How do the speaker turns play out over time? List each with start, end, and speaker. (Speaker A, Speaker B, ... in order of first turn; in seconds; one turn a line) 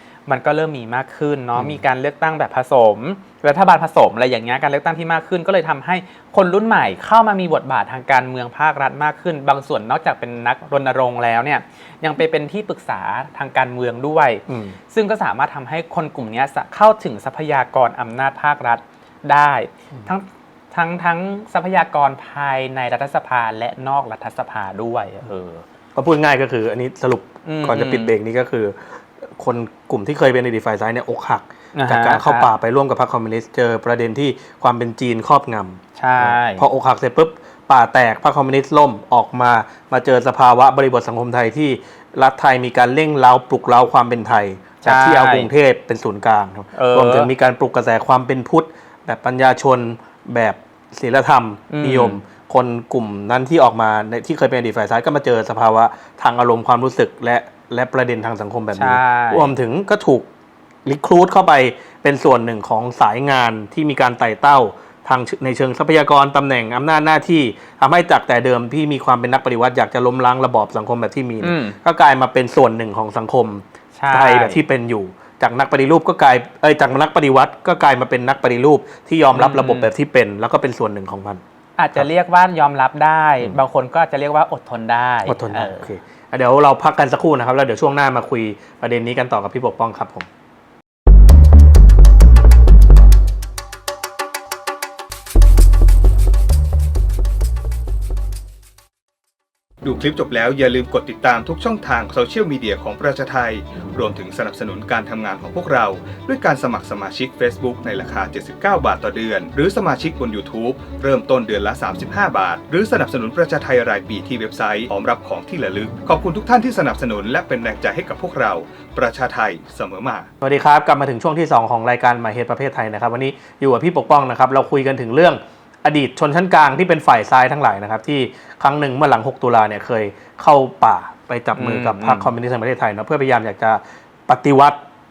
Speaker A: 0.3-25.6
Speaker B: 14.5-14.8
Speaker B: 25.9-60.3
Speaker A: 27.4-28.1
Speaker A: 31.8-32.5
Speaker A: 36.0-36.6
Speaker A: 44.9-45.5
Speaker A: 46.8-47.3
Speaker A: 51.7-52.2
Speaker A: 58.8-59.5
Speaker B: 60.9-81.4
Speaker A: 71.4-71.8
Speaker A: 73.9-74.6
Speaker A: 79.3-79.9
Speaker A: 81.8-85.9
Speaker B: 85.3-90.3
Speaker C: 99.8-120.3
Speaker B: 120.4-134.8
Speaker A: 131.6-132.3